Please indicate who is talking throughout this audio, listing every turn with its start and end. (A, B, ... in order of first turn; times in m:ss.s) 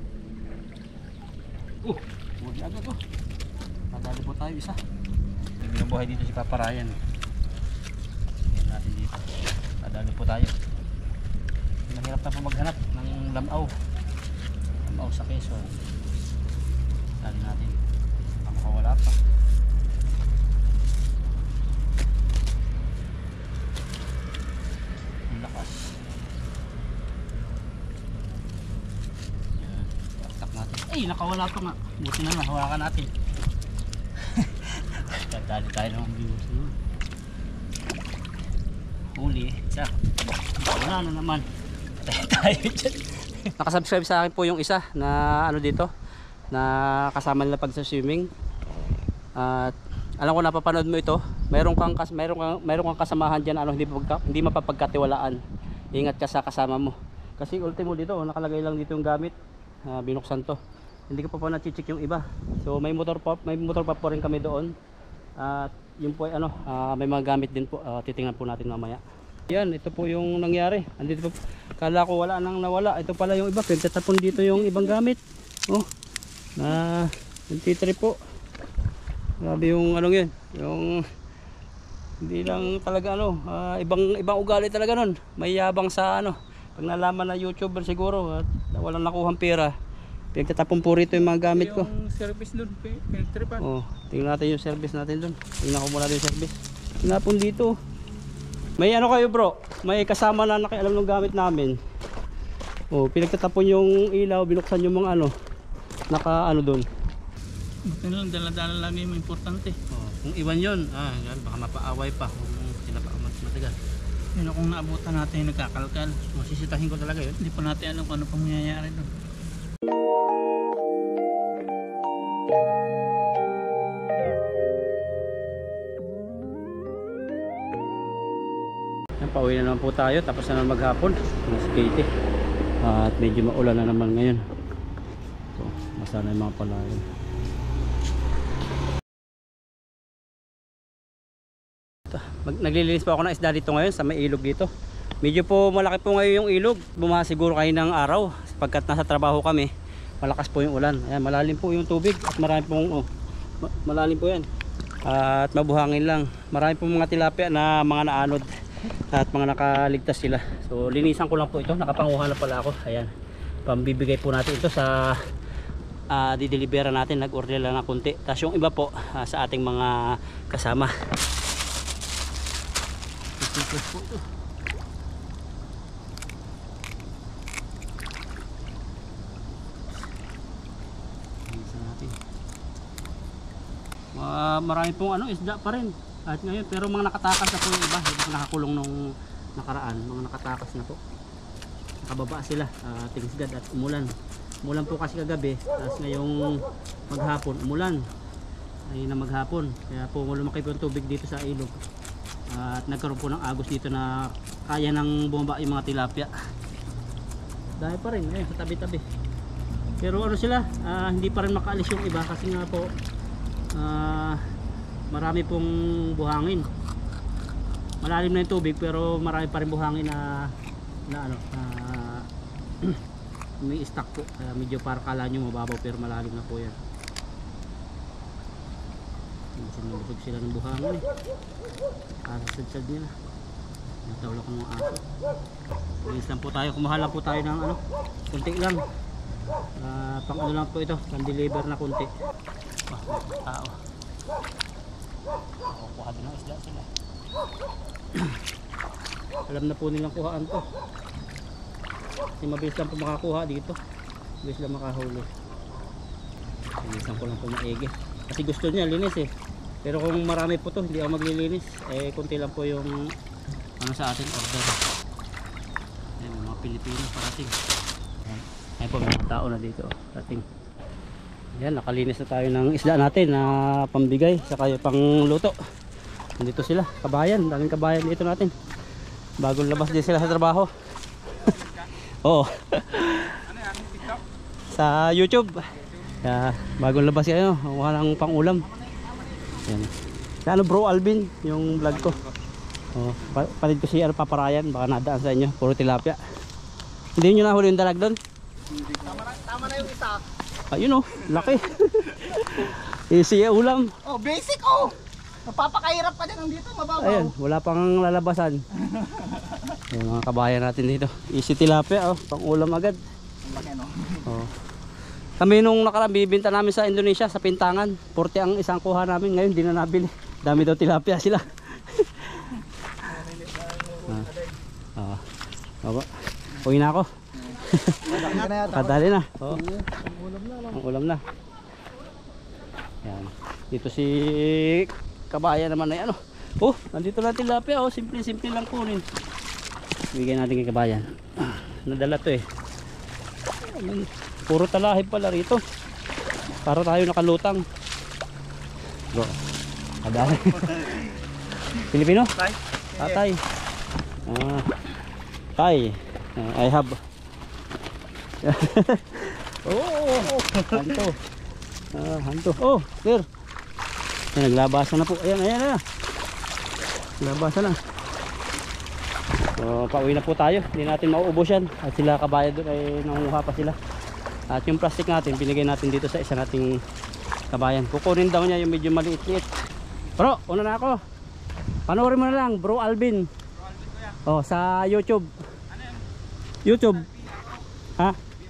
0:01.8-0:03.0 A
0:03.9-0:04.8 A
0:05.6-0:07.0 A
0:08.5-0:09.3 A
0:09.8-0:10.5 A
0:11.9-0:13.7 A
0:14.8-0:15.8 A
0:17.2-0:17.8 A
0:18.3-0:19.2 A
0:25.3-0:26.0 A
0:29.6-0:33.1 A
0:34.3-0:36.7 A
0:39.2-0:39.9 A
0:40.6-0:41.5 A
0:42.0-0:45.9 A
0:46.5-0:48.3 A
0:49.4-0:55.4 A
0:55.9-0:59.3 A
0:59.9-1:04.7 A
1:05.4-1:15.9 A
1:16.6-1:18.2 A
1:19.4-1:21.0 A
1:22.2-1:29.7 A
1:30.4-1:31.9 A
1:31.2-1:33.6 B
1:33.6-1:37.8 A
1:38.8-1:41.8 A
1:42.9-1:45.3 A
1:46.1-1:46.9 A
1:47.9-1:49.8 B
1:49.9-1:53.8 A
1:54.4-1:56.2 B
1:56.2-1:57.4 A
1:57.4-1:59.1 B
2:09.2-2:12.1 A
2:12.8-2:14.4 A
2:15.6-2:17.0 A
2:22.1-2:24.7 A
2:25.2-2:29.7 A
2:30.2-2:33.1 A
2:33.6-2:34.5 A
2:35.0-2:38.5 A
2:39.1-2:43.1 A
2:43.7-2:45.2 A
2:46.1-2:50.9 A
2:53.4-2:54.2 A
3:01.5-3:02.2 A
3:04.2-3:11.0 A
3:12.0-3:14.1 A
3:14.6-3:18.0 A
3:18.9-3:21.8 A
3:22.5-3:26.3 A
3:27.8-3:29.0 A
3:30.0-3:32.9 A
3:33.7-3:34.4 A
3:35.1-3:36.7 A
3:38.0-3:40.5 A
3:41.1-3:42.3 A
3:43.6-3:46.8 A
3:49.6-3:51.0 A
3:52.3-3:53.1 A
3:54.1-3:55.0 A
3:56.0-3:58.8 A
3:59.8-4:02.1 A
4:02.9-4:03.8 A
4:05.7-4:06.9 A
4:09.5-4:10.7 A
4:12.4-4:13.8 A
4:14.4-4:15.3 A
4:16.8-4:19.3 A
4:19.8-4:23.1 A
4:23.8-4:24.8 A
4:26.2-4:27.6 A
4:28.2-4:30.4 A
4:31.6-4:35.6 A
4:36.4-4:38.5 A
4:39.4-4:40.7 A
4:41.3-4:43.5 A
4:44.7-4:45.6 A
4:46.1-4:48.7 A
4:49.6-4:49.9 A
4:50.5-4:52.2 A
4:52.9-4:56.2 A
4:57.2-4:58.2 A
4:58.8-5:00.2 C
5:00.7-5:03.9 A
5:04.0-5:04.9 C
5:05.5-5:07.3 C
5:07.0-5:08.6 A
5:09.9-5:13.0 A
5:13.5-5:14.1 C
5:14.2-5:14.5 A
5:15.4-5:22.5 A
5:24.0-5:24.3 A
5:25.0-5:25.2 A
5:25.8-5:29.6 A
5:28.1-5:29.0 C
5:29.8-5:30.7 C
5:30.7-5:31.2 A
5:33.0-5:39.0 A
5:40.1-5:42.4 A
5:43.6-5:45.6 A
5:46.6-5:47.6 A
5:50.0-5:51.1 A
5:50.6-5:50.9 B
5:51.8-5:52.4 A
5:52.4-5:53.2 B
5:52.9-5:53.4 A
5:54.3-5:54.7 A
5:55.6-5:57.0 A
5:58.4-6:01.2 A
5:59.7-6:01.0 B
6:01.9-6:03.3 A
6:04.4-6:05.8 A
6:07.2-6:07.8 A
6:09.6-6:13.8 A
6:14.5-6:16.8 A
6:17.5-6:19.5 A
6:20.2-6:21.0 A
6:21.9-6:23.3 A
6:24.1-6:25.3 A
6:26.6-6:27.1 A